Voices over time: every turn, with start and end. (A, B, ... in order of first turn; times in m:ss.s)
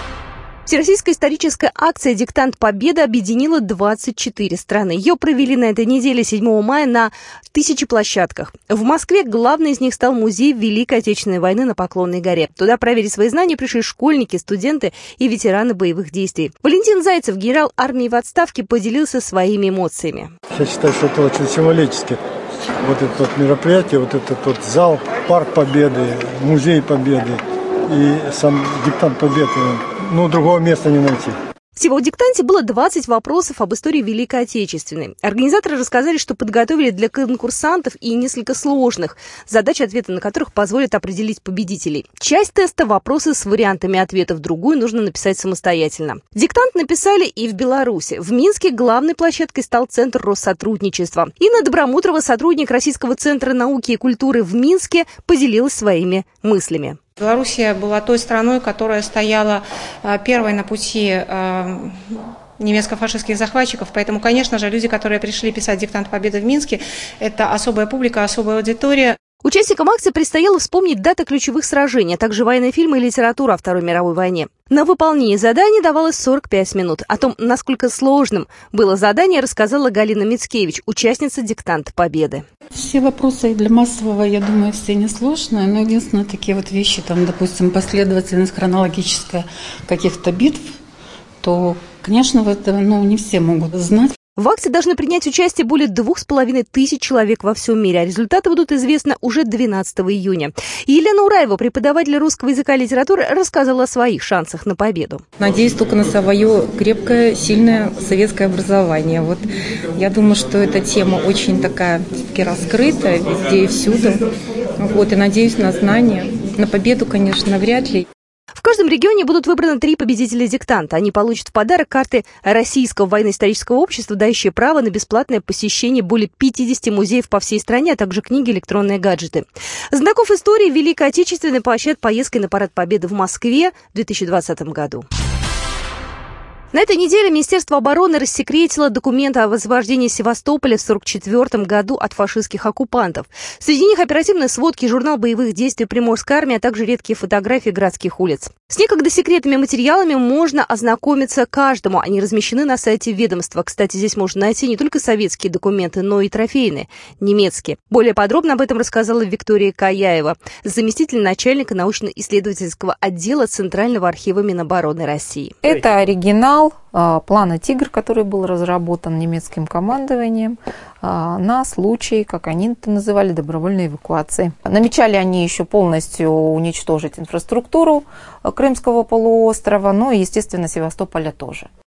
0:00.7-0:20.3 A
0:20.5-0:22.2 B
0:22.8-0:31.3 B
0:31.8-0:57.0 A
0:57.2-1:09.2 C
1:09.4-1:22.4 A
1:22.7-1:30.8 D
1:31.4-1:34.1 D
1:34.4-1:45.2 A
1:45.4-1:54.2 E
1:54.8-1:58.1 E
1:58.6-2:15.0 A
2:16.7-2:45.6 A
2:45.6-3:01.7 F